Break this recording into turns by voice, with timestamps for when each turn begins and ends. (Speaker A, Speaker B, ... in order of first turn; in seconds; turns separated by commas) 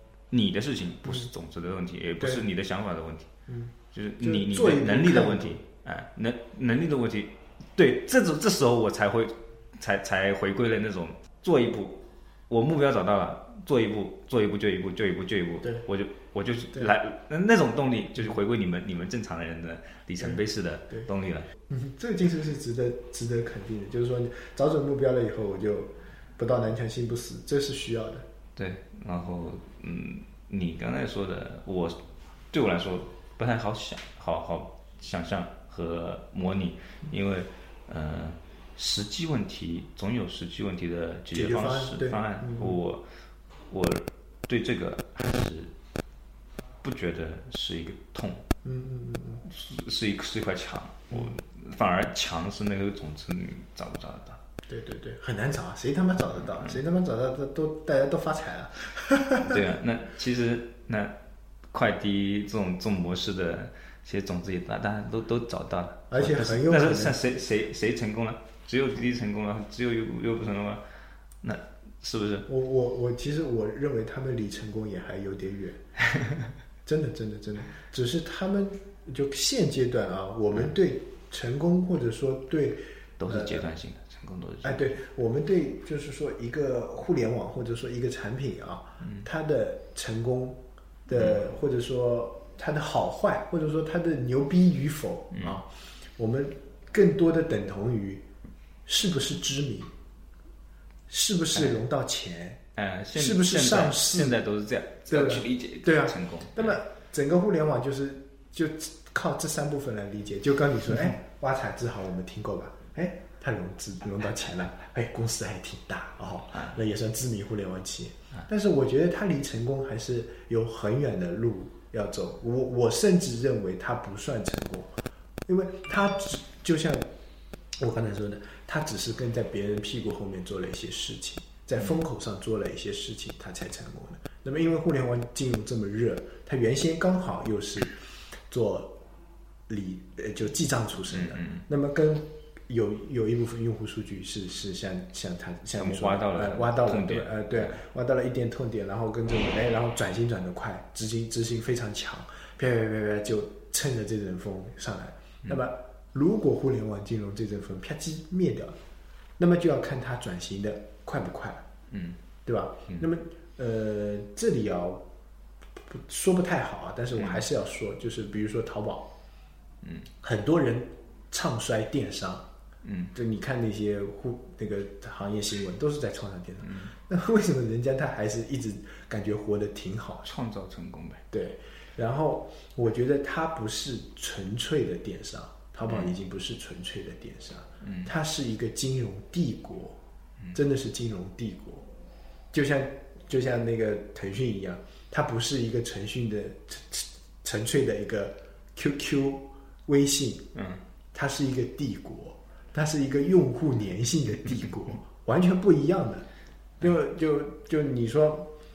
Speaker A: 0.3-3.3, Speaker B: 2.2-2.4, Speaker B: 3.5-5.6, Speaker A: 3.9-21.5, Speaker B: 21.7-28.2, Speaker A: 28.6-32.0, Speaker A: 32.5-43.0, Speaker B: 41.3-42.8, Speaker A: 43.7-45.7, Speaker A: 46.8-48.5, Speaker B: 48.6-49.4, Speaker A: 49.4-54.4, Speaker B: 54.7-59.6, Speaker A: 59.4-61.1, Speaker A: 61.7-70.8, Speaker B: 66.1-67.2, Speaker A: 71.4-72.5, Speaker B: 72.5-75.8, Speaker A: 76.1-76.5, Speaker B: 76.8-83.6, Speaker A: 83.2-85.0, Speaker B: 84.6-98.2, Speaker A: 89.0-89.2, Speaker A: 95.3-95.6, Speaker B: 98.8-99.9, Speaker B: 101.1-102.6, Speaker A: 102.8-106.8, Speaker B: 103.1-104.4, Speaker B: 105.1-124.9, Speaker B: 125.5-127.1, Speaker B: 127.8-139.0, Speaker B: 139.7-158.8, Speaker A: 141.1-141.6, Speaker A: 145.8-147.8, Speaker B: 159.4-161.7, Speaker A: 161.9-162.2, Speaker B: 162.4-165.0, Speaker B: 165.9-169.1, Speaker A: 167.2-167.4, Speaker B: 170.2-172.5, Speaker A: 172.8-173.1, Speaker B: 173.1-180.2, Speaker A: 176.6-176.9, Speaker A: 180.2-181.2, Speaker B: 181.3-190.0, Speaker A: 187.8-188.1, Speaker B: 190.5-191.9, Speaker B: 192.5-200.5, Speaker A: 200.5-200.8, Speaker B: 201.1-206.2, Speaker B: 206.8-208.5